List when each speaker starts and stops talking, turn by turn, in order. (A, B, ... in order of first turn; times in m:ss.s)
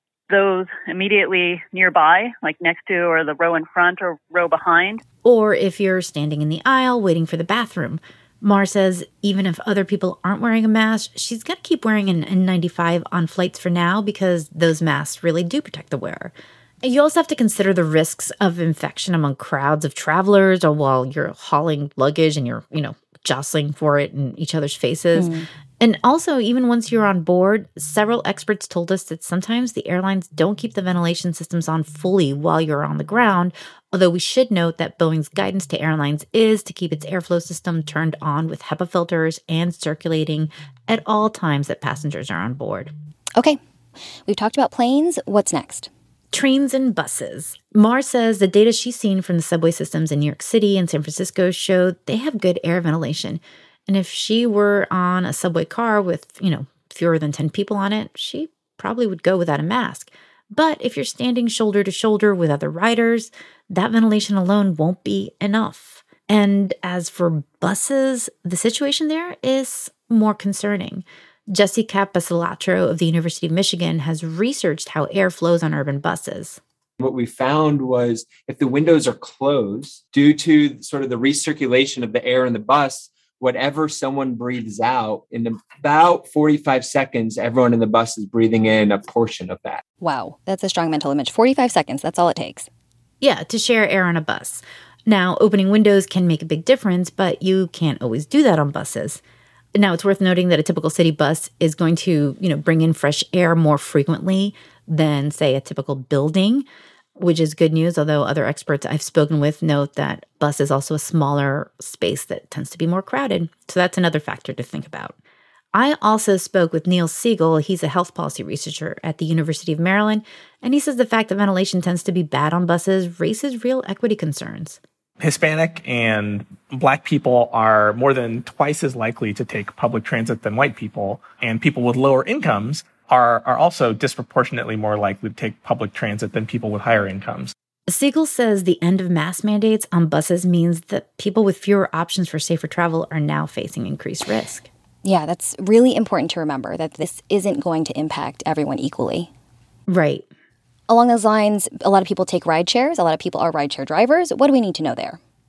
0:00.3-0:05.0 A
0:05.2-0:42.9 B
0:25.2-0:25.5 C
0:44.3-0:45.9 C
0:46.3-1:16.6 B
1:17.0-1:29.8 D
1:30.0-1:32.7 C
1:33.2-1:39.2 B
1:39.8-1:46.6 B
1:47.2-1:55.2 B
1:55.7-2:04.8 B
2:05.2-2:17.5 E
2:17.9-2:24.7 B
2:25.0-2:29.3 C
2:29.9-2:30.3 B
2:30.9-2:35.2 C